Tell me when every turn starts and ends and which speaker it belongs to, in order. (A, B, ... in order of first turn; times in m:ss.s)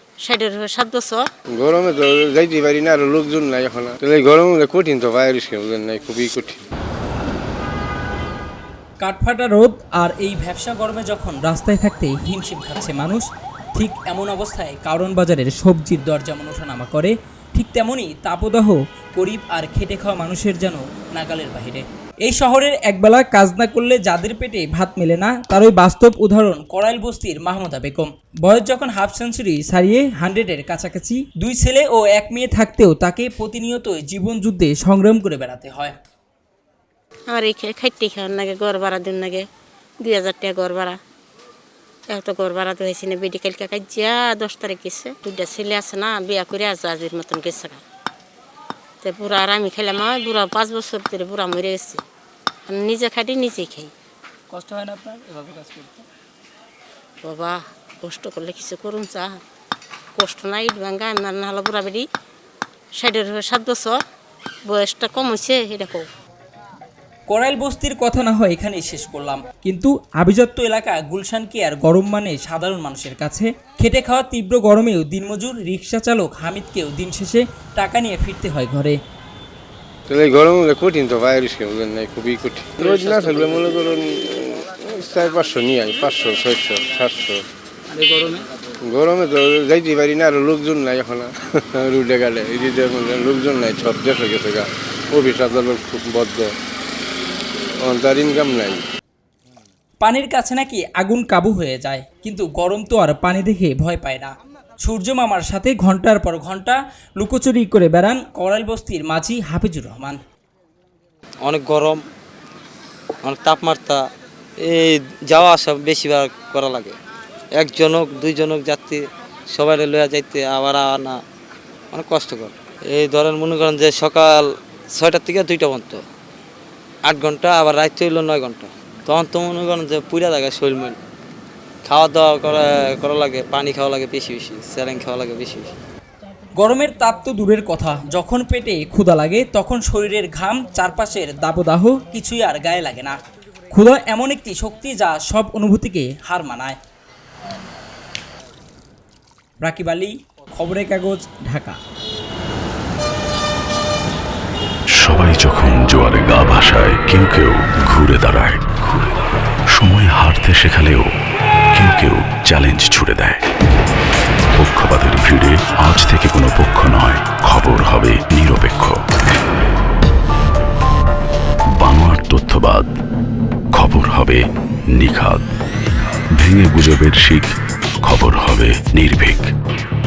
0:00.2-0:01.2 A
0:01.5-0:06.6 B
0:09.0-0:13.2 C
0:13.8-0:35.9 C
0:37.3-0:39.5 A
0:40.0-0:41.0 A
0:42.1-0:47.8 A
0:49.0-0:52.0 A
0:52.7-0:53.9 A
0:54.5-0:56.0 C
0:57.2-0:59.4 A
1:00.2-1:02.1 A
1:03.0-1:04.0 A
1:04.7-1:06.1 A
1:07.3-1:19.0 C
1:20.1-1:27.4 B
1:22.8-1:23.7 D
1:27.9-1:28.4 D
1:28.8-1:36.5 B
1:37.8-1:38.8 B
1:40.0-1:50.2 C
1:51.4-1:52.0 D
1:53.2-1:54.0 D
1:54.6-1:57.0 D
1:57.6-2:01.2 D
2:01.9-2:06.0 D
2:07.1-2:11.0 D
2:11.8-2:15.7 D
2:16.6-2:23.2 C
2:23.7-2:26.8 C
2:29.6-2:31.8 C
2:35.0-2:39.1 E
2:39.7-2:41.1 E
2:41.7-2:43.4 E
2:44.5-2:49.0 E
2:51.8-2:52.9 E
2:53.7-2:54.4 E
2:54.9-2:55.5 E
2:56.3-2:59.5 E